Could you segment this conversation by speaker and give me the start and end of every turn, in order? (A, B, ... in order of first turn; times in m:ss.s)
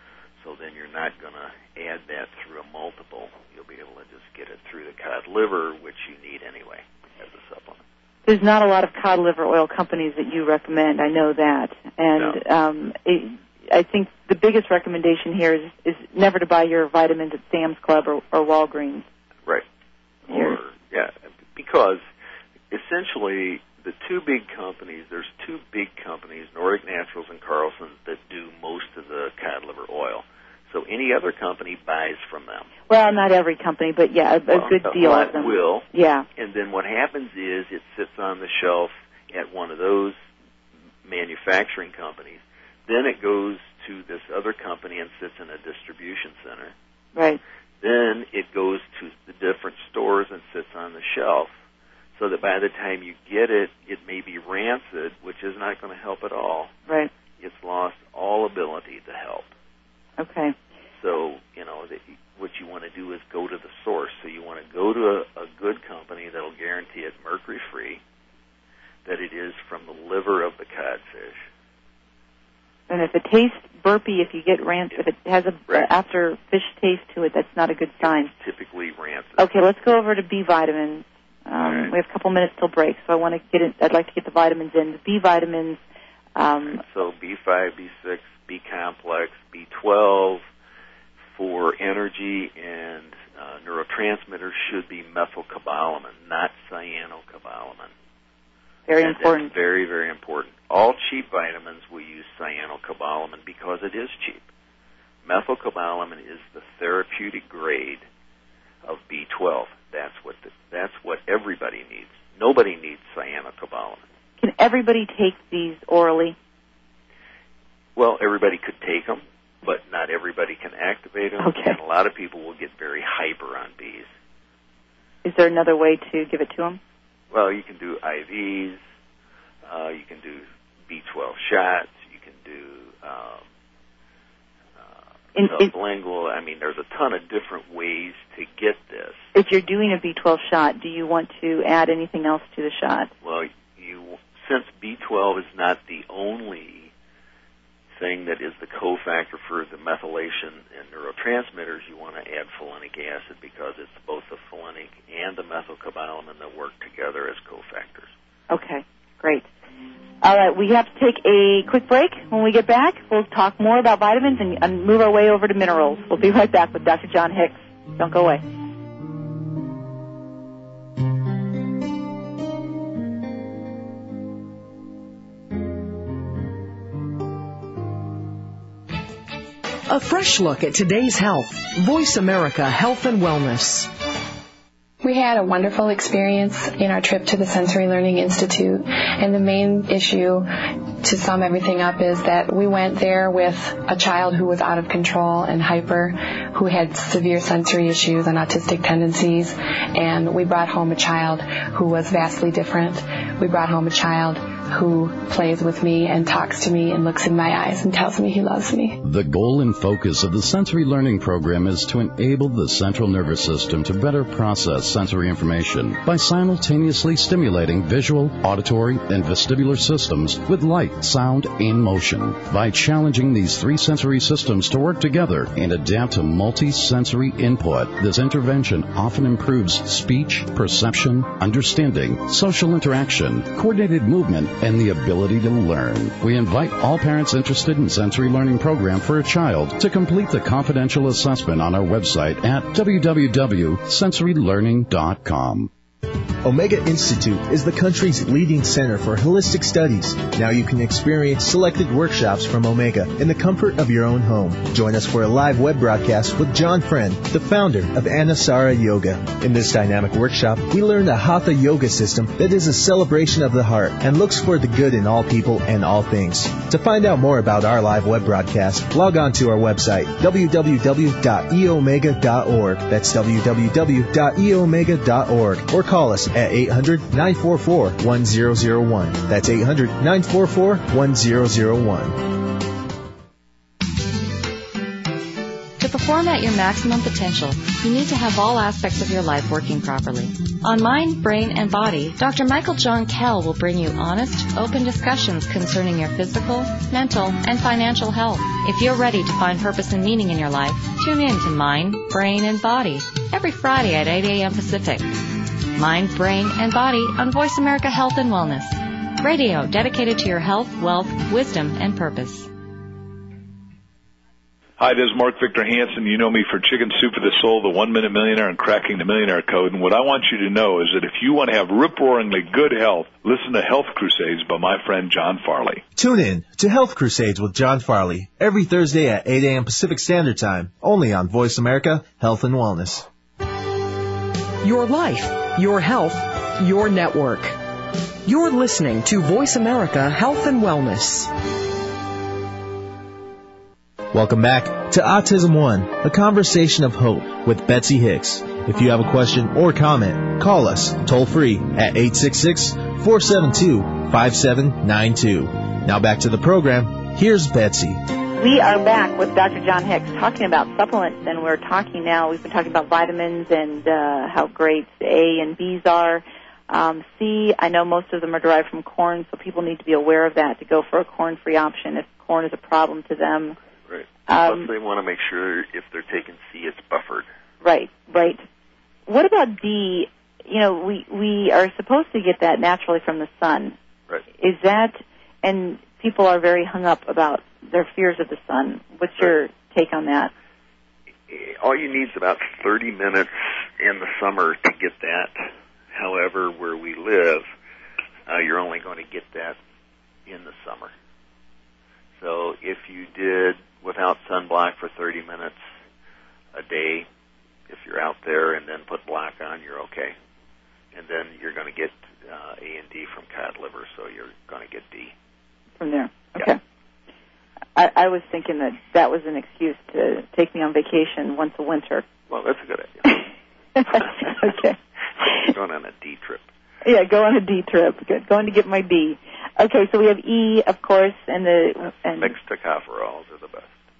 0:00.4-0:07.8 A
0:08.2-0:19.0 B
0:12.1-0:12.4 A
0:20.2-0:22.0 A
0:20.3-0:20.6 B
0:22.7-0:32.7 A
0:32.9-0:36.3 B
0:34.5-0:40.2 A
0:41.0-0:46.7 A
0:47.1-0:47.4 B
0:47.8-0:51.5 A
0:52.2-0:56.7 A
0:57.4-0:59.5 A
1:00.2-1:00.5 B
1:01.0-1:08.0 A
1:09.0-1:11.4 A
1:12.9-1:18.3 B
1:18.0-1:19.5 A
1:19.4-1:25.8 B
1:21.6-1:21.9 A
1:26.4-1:26.8 B
1:26.6-1:30.4 A
1:31.3-1:37.9 A
1:38.9-1:39.5 B
1:39.0-1:44.4 A
1:45.2-1:48.0 A
1:48.8-1:54.0 A
1:54.4-1:56.4 B
1:58.0-2:04.1 A
2:01.4-2:01.8 B
2:05.2-2:06.8 B
2:07.3-2:08.8 A
2:09.6-2:13.4 A
2:14.8-2:19.3 A
2:15.3-2:15.7 B
2:19.3-2:23.1 B
2:23.2-2:26.9 A
2:27.9-2:38.1 A
2:38.5-2:39.5 B
2:40.2-2:48.4 B
2:59.9-3:03.9 C
3:05.0-3:29.0 D
3:29.0-4:05.7 E
4:06.4-4:42.4 F
4:45.8-5:05.1 G
5:05.7-5:12.5 G
5:14.8-5:25.8 H
5:26.0-5:33.1 F
5:34.6-5:37.6 C
5:38.2-5:41.3 C
5:44.1-5:58.0 F
5:58.4-6:13.6 B
6:13.9-6:17.3 A
6:14.3-6:14.7 B
6:17.6-6:18.4 B
6:19.1-6:23.8 B
6:24.4-6:30.3 B
6:31.3-6:37.4 A
6:38.3-6:39.6 A
6:40.2-6:40.9 A
6:42.2-6:45.6 A
6:46.5-6:47.1 A
6:47.7-6:50.1 A
6:50.9-6:55.1 A
6:55.8-6:56.6 B
6:57.8-7:02.0 B
7:02.3-7:03.3 A
7:03.8-7:05.5 B
7:03.9-7:04.5 A
7:05.2-7:06.5 A
7:06.8-7:12.3 B
7:12.2-7:13.7 A